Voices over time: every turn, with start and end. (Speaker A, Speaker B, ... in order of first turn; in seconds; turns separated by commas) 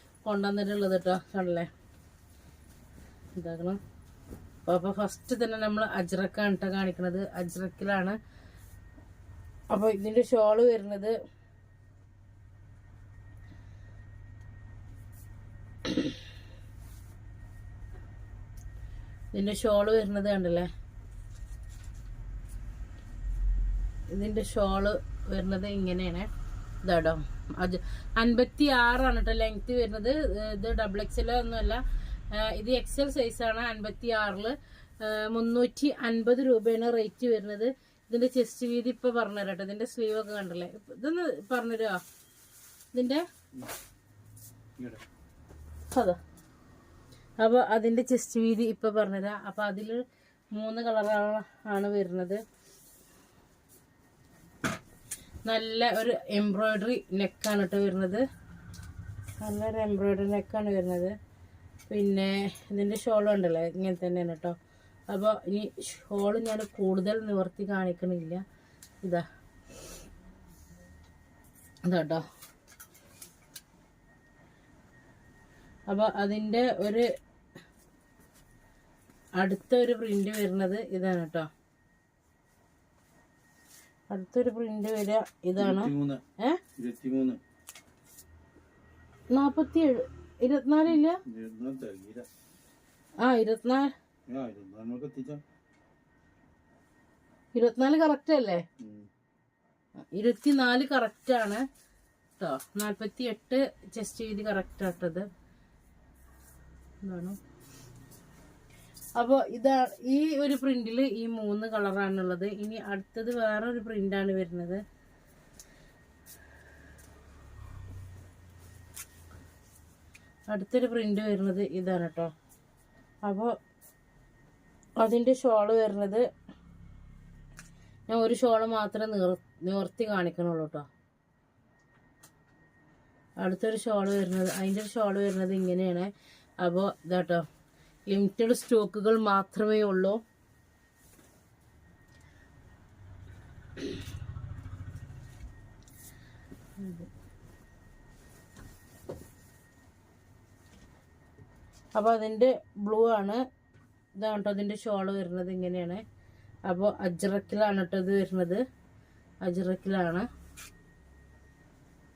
Speaker A: 0.2-1.7, Speaker A: 3.4-3.8, Speaker A: 4.7-8.2, Speaker A: 9.7-11.2, Speaker A: 15.9-16.1, Speaker A: 19.3-20.7, Speaker A: 24.1-26.3, Speaker A: 26.8-42.0, Speaker A: 42.9-43.2, Speaker A: 45.9-46.2, Speaker A: 47.4-50.0, Speaker A: 50.5-52.4, Speaker A: 55.5-58.2, Speaker A: 59.4-61.1, Speaker A: 61.9-64.6, Speaker A: 65.1-68.4, Speaker A: 71.8-72.2, Speaker A: 75.9-77.1, Speaker A: 79.4-81.5, Speaker A: 84.1-86.6, Speaker B: 85.6-86.2, Speaker B: 86.8-87.4, Speaker A: 89.3-91.2, Speaker B: 91.2-92.3, Speaker A: 93.2-93.9, Speaker B: 94.3-95.4, Speaker A: 97.5-98.6, Speaker B: 98.8-99.1, Speaker A: 100.1-101.7, Speaker A: 102.4-105.3, Speaker A: 107.0-107.4, Speaker A: 109.2-114.8, Speaker A: 120.5-122.3, Speaker A: 123.2-123.5, Speaker A: 125.0-126.2, Speaker A: 128.1-130.9, Speaker A: 133.4-136.1, Speaker A: 136.6-137.4, Speaker A: 138.1-140.2, Speaker A: 146.8-147.1, Speaker A: 152.0-153.4, Speaker A: 154.2-156.0, Speaker A: 156.7-158.6, Speaker A: 159.4-160.3